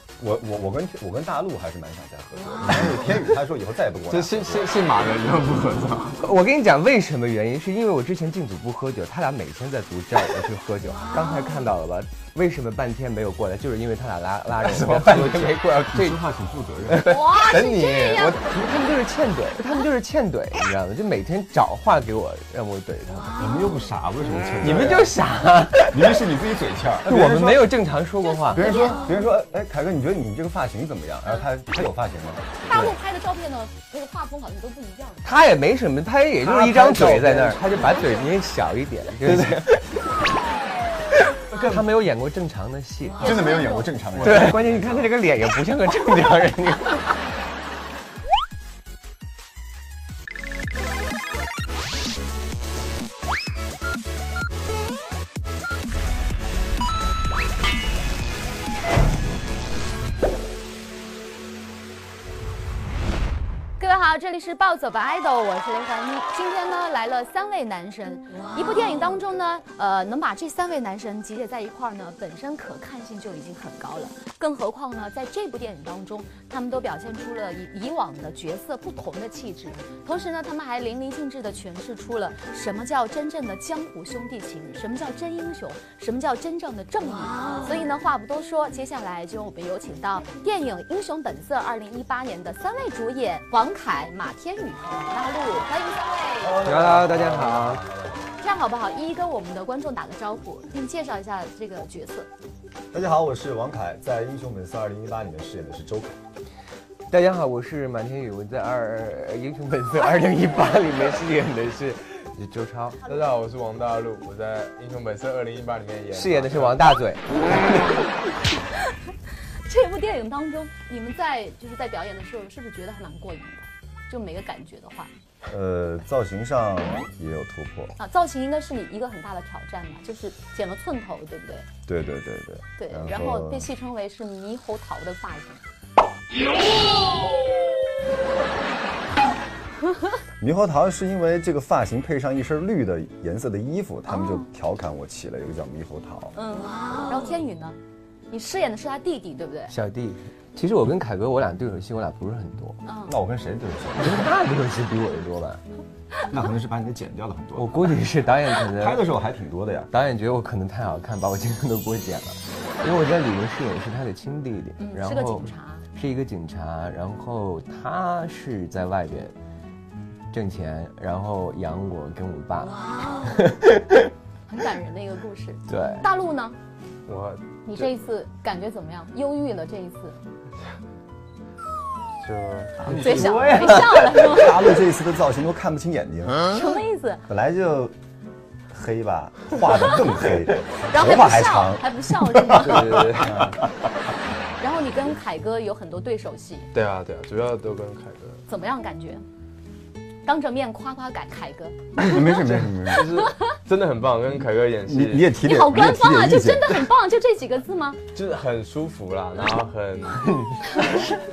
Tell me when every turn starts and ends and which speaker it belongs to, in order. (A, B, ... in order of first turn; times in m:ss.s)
0:00.2-0:04.7 A
0:04.1-0:06.2 B
0:06.2-0:15.7 C
0:14.6-0:16.2 B
0:15.9-0:17.1 A
0:16.9-0:18.4 B
0:17.0-0:18.4 D
0:18.3-0:23.3 C
0:23.4-0:25.2 A
0:24.6-0:26.2 C
0:24.7-0:25.0 B
0:25.9-0:27.8 A
0:27.0-0:28.9 C
0:28.2-0:29.2 D
0:28.5-0:32.6 A
0:32.7-0:35.3 D
0:35.2-0:39.8 C
0:36.4-0:38.3 B
0:39.2-0:39.7 B
0:41.5-0:43.5 C
0:41.5-0:41.9 B
0:43.2-0:44.0 D
0:43.2-0:44.6 A
0:44.1-0:45.2 B
0:44.2-0:47.1 C
1:03.8-1:36.6 D
1:36.4-1:38.2 A
1:36.6-1:37.8 C
1:38.4-1:42.3 D
1:42.9-1:46.2 A
1:47.1-1:53.0 C
1:53.1-1:56.9 B
1:56.1-1:57.4 C
1:59.7-2:05.1 D
2:05.5-2:08.0 A
2:08.0-2:11.7 D
2:11.9-2:13.7 A
2:12.8-2:15.6 D
2:20.4-2:26.4 A
2:24.1-2:24.5 D
2:26.4-2:27.8 D
2:28.3-2:29.7 D
2:29.7-2:32.8 C
2:32.8-2:33.2 D
2:33.1-2:34.3 A
2:34.0-2:35.6 C
2:36.3-2:38.0 A
2:37.6-2:39.1 C
2:38.6-2:39.9 A
2:39.9-2:49.4 C
2:44.8-2:45.9 D
2:50.3-2:54.1 C
2:54.5-2:56.6 D
2:55.7-2:56.1 C
2:57.1-2:57.9 B
2:57.6-3:00.2 D
3:02.2-3:03.0 B
3:02.8-3:06.5 A
3:02.9-3:04.1 C
3:03.0-3:04.8 D
3:06.5-3:07.2 D
3:07.3-3:07.9 A
3:08.7-3:13.7 A
3:10.9-3:13.0 D
3:12.6-3:13.5 B
3:14.6-3:16.7 D
3:16.7-3:18.4 B
3:18.5-3:19.2 D
3:20.2-3:21.8 D
3:22.0-3:23.1 A
3:22.2-3:25.3 B
3:23.0-3:23.6 D
3:24.9-3:26.9 A
3:25.4-3:28.0 D
3:28.1-3:30.3 B